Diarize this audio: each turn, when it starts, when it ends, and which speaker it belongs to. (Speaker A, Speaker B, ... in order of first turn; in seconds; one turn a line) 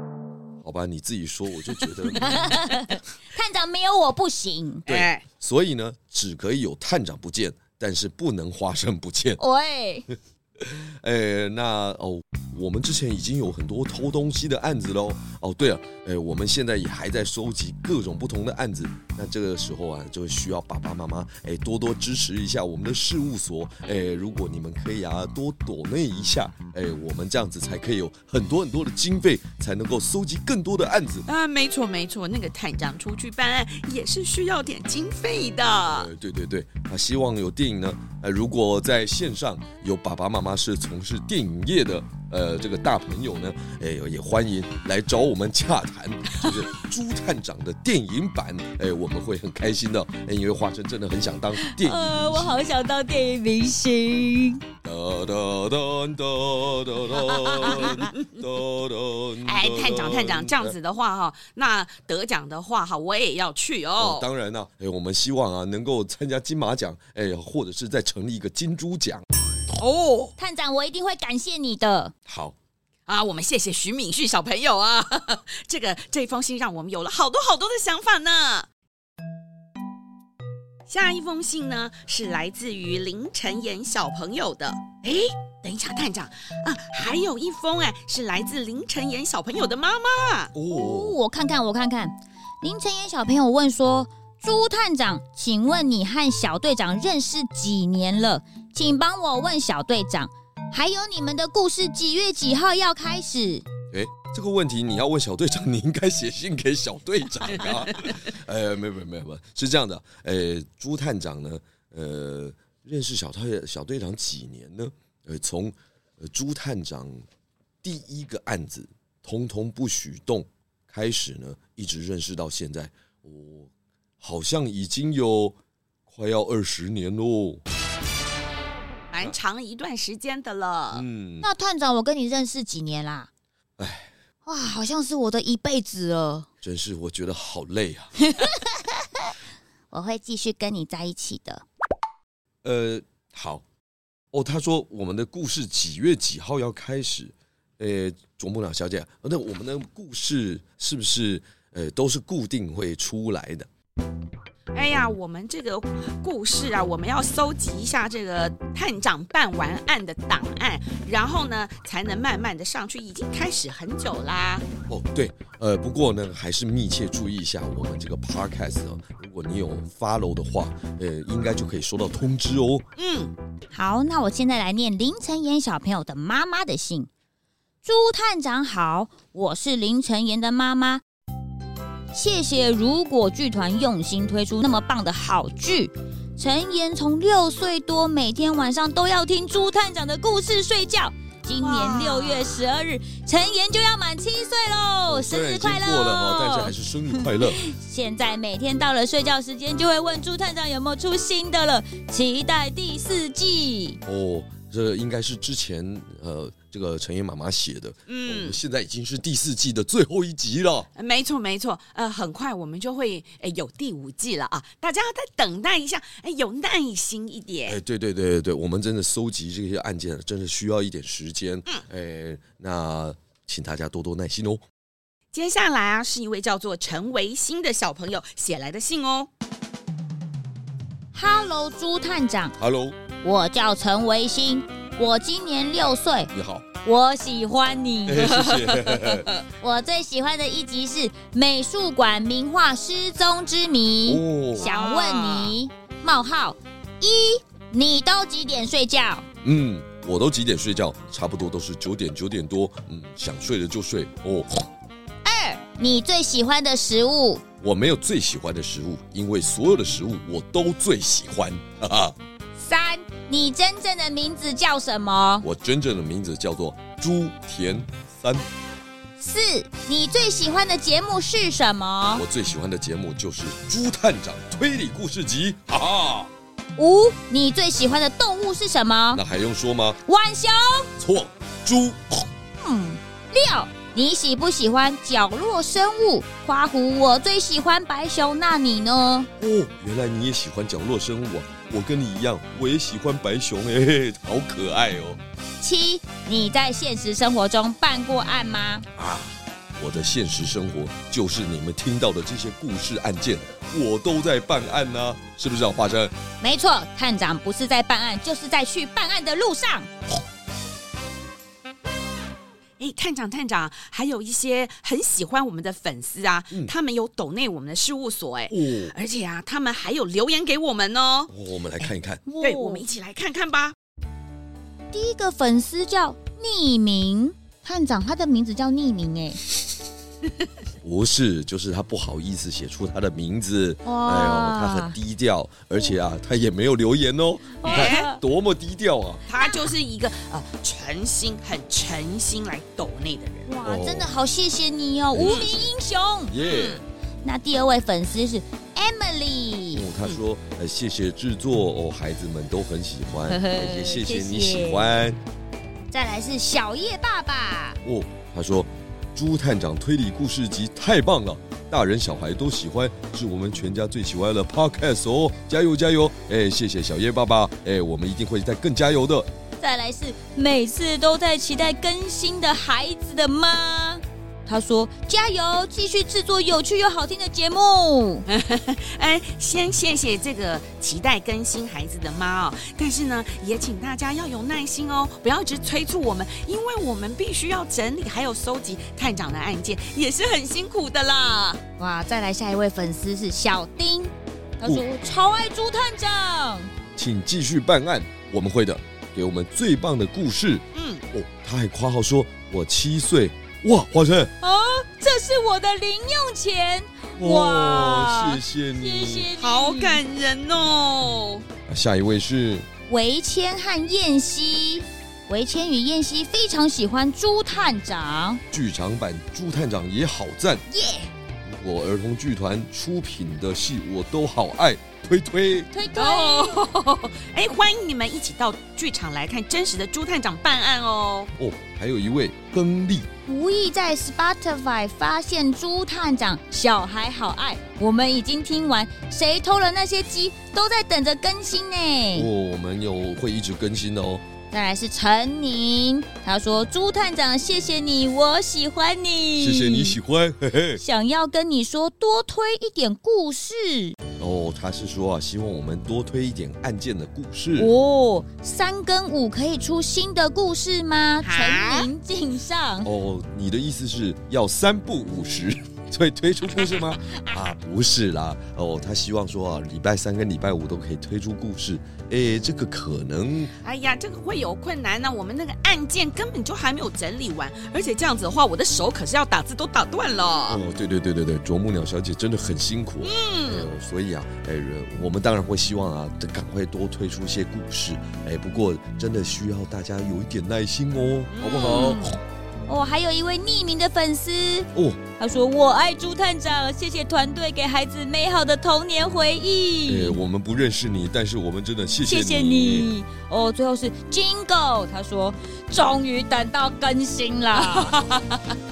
Speaker A: 0.6-2.6
Speaker B: 2.2-4.8
Speaker C: 4.9-5.2
Speaker A: 4.9-9.4
Speaker B: 9.4-10.1
Speaker A: 10.6-31.3
Speaker C: 31.3-36.1
Speaker A: 35.9-52.6
Speaker B: 51.6-54.6
Speaker A: 54.8-60.8
Speaker B: 57.1-58.1
Speaker C: 59.4-64.3
Speaker A: 64.0-69.2
Speaker C: 69.8-70.3
Speaker B: 70.4-72.1
Speaker A: 72.3-72.6
Speaker C: 73.1-78.7
Speaker C: 80.9-90.5
Speaker A: 90.5-91.2
Speaker B: 90.7-103.7
Speaker A: 103.9-117.2
Speaker A: 117.8-123.7
Speaker A: 124.2-125.6
Speaker A: 126.1-127.6
Speaker C: 129.1-131.0
Speaker A: 130.9-131.5
Speaker B: 131.4-133.3
Speaker A: 133.8-134.1
Speaker B: 134.4-136.5
Speaker A: 136.6-138.1
Speaker B: 138.2-139.2
Speaker B: 139.9-141.6
Speaker A: 142.6-143.7
Speaker A: 144.3-153.7
Speaker C: 154.7-164.7
Speaker A: 164.9-172.9
Speaker C: 173.0-173.3
Speaker B: 173.7-177.1
Speaker B: 177.8-181.0
Speaker B: 182.1-204.0
Speaker C: 191.6-192.7
Speaker A: 195.1-197.6
Speaker A: 204.1-210.9
Speaker C: 208.1-208.6
Speaker C: 211.0-217.8
Speaker A: 217.7-224.6
Speaker C: 225.3-229.3
Speaker B: 231.1-232.6
Speaker A: 232.6-233.0
Speaker B: 233.2-236.3
Speaker A: 236.3-236.7
Speaker B: 236.8-238.4
Speaker A: 238.1-239.3
Speaker C: 238.4-239.4
Speaker B: 239.6-249.3
Speaker A: 244.1-244.7
Speaker C: 244.6-245.6
Speaker A: 249.4-254.7
Speaker B: 255.3-257.4
Speaker A: 257.6-262.1
Speaker B: 262.6-265.5
Speaker A: 265.4-268.5
Speaker B: 269.2-272.2
Speaker A: 272.1-276.3
Speaker B: 276.8-279.2
Speaker A: 279.1-280.0
Speaker B: 280.0-280.9
Speaker A: 281.0-282.2
Speaker B: 282.6-289.3
Speaker A: 289.4-295.2
Speaker B: 295.6-298.9
Speaker A: 299.0-306.1
Speaker B: 306.4-309.9
Speaker C: 312.8-323.8
Speaker A: 318.5-318.9
Speaker A: 321.3-322.2
Speaker B: 322.3-322.8
Speaker B: 324.9-329.4
Speaker A: 330.8-339.2
Speaker B: 333.8-334.9
Speaker B: 337.6-338.2
Speaker C: 337.6-338.1
Speaker C: 339.3-343.5
Speaker B: 343.5-346.4
Speaker A: 343.6-344.1
Speaker A: 345.1-345.7
Speaker C: 345.2-345.5
Speaker A: 346.3-346.8
Speaker C: 346.4-346.8
Speaker B: 347.2-349.9
Speaker A: 349.7-355.2
Speaker B: 353.3-355.0
Speaker B: 355.9-357.8
Speaker A: 357.8-369.3
Speaker B: 369.6-378.2
Speaker C: 378.3-391.6
Speaker B: 391.8-396.7
Speaker A: 397.0-404.3
Speaker C: 400.7-401.0
Speaker B: 404.4-410.0
Speaker A: 407.2-409.3
Speaker C: 409.4-411.4
Speaker A: 411.7-412.7
Speaker B: 412.9-418.4
Speaker A: 418.5-420.6
Speaker B: 420.7-421.1
Speaker A: 421.4-425.7
Speaker B: 425.7-426.7
Speaker C: 425.9-431.3
Speaker A: 431.4-433.1
Speaker B: 433.3-442.3
Speaker A: 442.1-444.2
Speaker B: 444.5-450.0
Speaker A: 449.4-450.8
Speaker B: 450.8-454.0
Speaker A: 454.2-457.7
Speaker B: 457.6-462.9
Speaker C: 461.2-461.9
Speaker A: 462.8-473.5
Speaker B: 467.1-467.3
Speaker C: 473.6-480.6
Speaker A: 480.5-492.1
Speaker C: 483.0-483.7
Speaker C: 491.3-492.1
Speaker B: 491.6-492.1
Speaker B: 492.7-500.2
Speaker A: 494.7-495.0
Speaker A: 499.9-502.9
Speaker B: 502.0-508.0
Speaker C: 507.5-508.5